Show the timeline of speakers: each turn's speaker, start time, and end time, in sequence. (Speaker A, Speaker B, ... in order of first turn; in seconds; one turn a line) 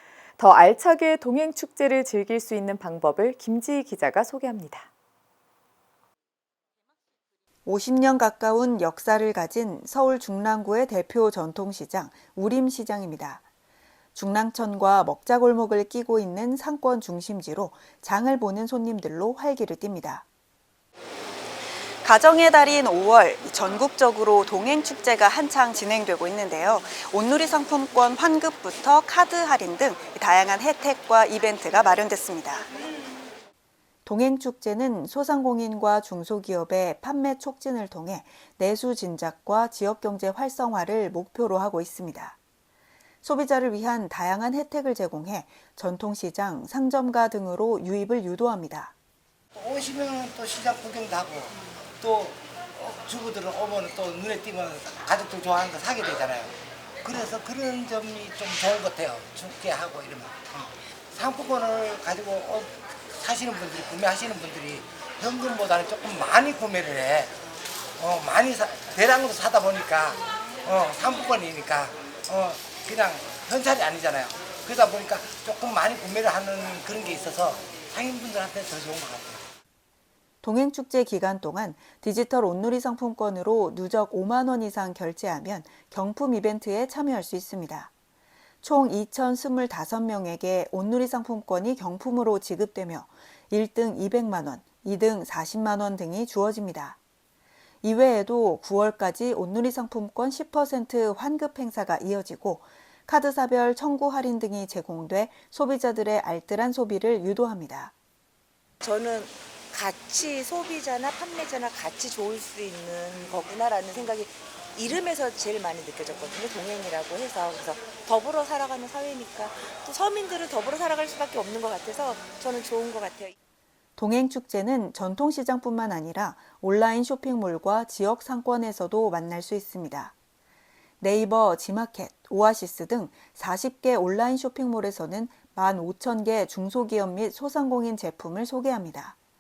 Speaker A: 0.4-4.9
Speaker B: 7.7-13.4
Speaker B: 14.2-20.2
Speaker B: 22.0-32.7
Speaker B: 34.1-42.4
Speaker B: 43.2-48.9
Speaker C: 49.5-67.3
Speaker C: 68.0-79.4
Speaker B: 80.4-87.9
Speaker B: 88.6-97.0
Speaker B: 97.8-107.9
Speaker D: 108.8-123.3
Speaker B: 124.0-130.2
Speaker B: 131.0-139.2